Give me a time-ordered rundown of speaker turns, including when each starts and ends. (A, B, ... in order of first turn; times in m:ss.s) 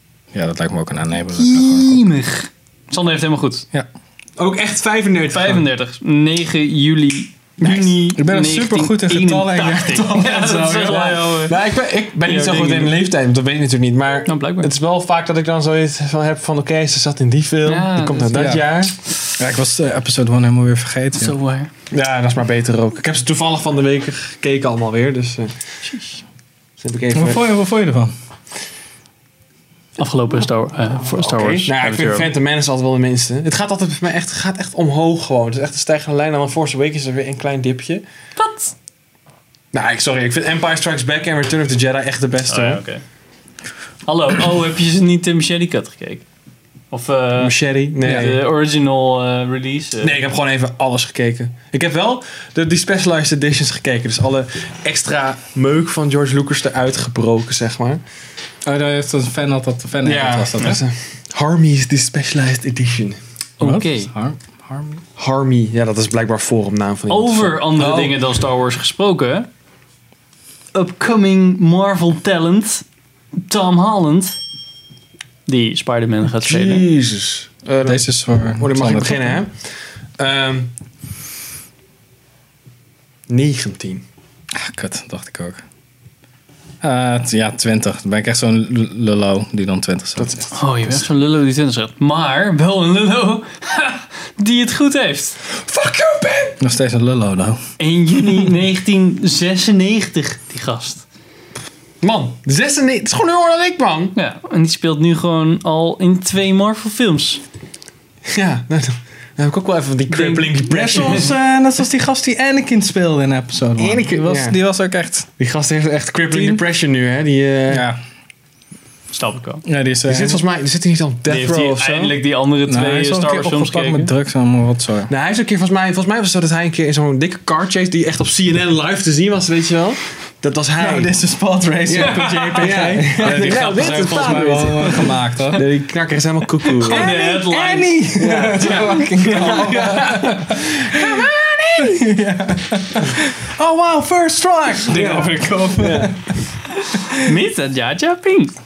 0:00.3-0:02.1 A
0:01.4-0:03.7 B
0:04.4-0:05.7 C
0:05.3-0:11.6 B
0:07.7-0:11.3 A
0:10.8-0:19.0 C
0:12.2-0:13.0 B
0:14.3-0:14.7 B
0:17.6-0:18.6 B
0:18.3-0:18.6 A
0:19.3-0:21.4 A
0:21.1-0:21.7 B
0:21.9-0:25.5 C
0:25.9-0:26.2 B
0:26.8-0:27.4 C
0:27.1-0:28.2 A
0:30.0-0:32.3 B
0:31.2-0:38.0 C
0:38.4-0:38.7 B
0:39.7-0:42.8 C
0:42.5-0:43.0 B
0:44.1-0:46.2 B
0:46.9-0:50.2 B
0:47.4-0:48.4 C
0:48.0-0:48.3 A
0:50.0-0:58.0 C
0:58.6-1:00.8 A
1:00.0-1:03.2 C
1:03.6-1:04.1 B
1:03.6-1:05.0 A
1:05.2-1:08.2 C
1:07.1-1:09.5 B
1:10.7-1:12.9 B
1:13.5-1:14.4 B
1:15.5-1:16.8 B
1:16.4-1:19.7 C
1:17.8-1:19.4 A
1:20.2-1:20.7 C
1:23.3-1:24.0 C
1:24.6-1:25.6 A
1:26.8-1:30.5 A
1:30.2-1:30.6 C
1:30.5-1:35.4 B
1:35.6-1:36.6 C
1:36.6-1:37.6 A
1:37.8-1:41.0 B
1:38.2-1:38.5 A
1:42.0-1:44.2 C
1:44.2-1:47.4 B
1:48.3-1:51.4 C
1:50.1-1:51.2 B
1:50.7-1:55.3 A
1:53.8-1:54.6 C
1:55.4-1:57.9 C
1:56.3-1:56.6 A
1:57.7-1:58.0 A
1:59.1-1:59.6 B
1:59.6-2:00.4 A
2:00.1-2:02.2 C
2:01.3-2:04.1 B
2:02.7-2:05.1 A
2:05.1-2:11.2 C
2:10.8-2:15.7 A
2:11.9-2:17.1 C
2:11.9-2:12.9 B
2:16.6-2:21.3 A
2:16.8-2:18.0 B
2:18.2-2:22.0 C
2:21.8-2:26.3 A
2:24.8-2:26.3 C
2:26.8-2:28.5 B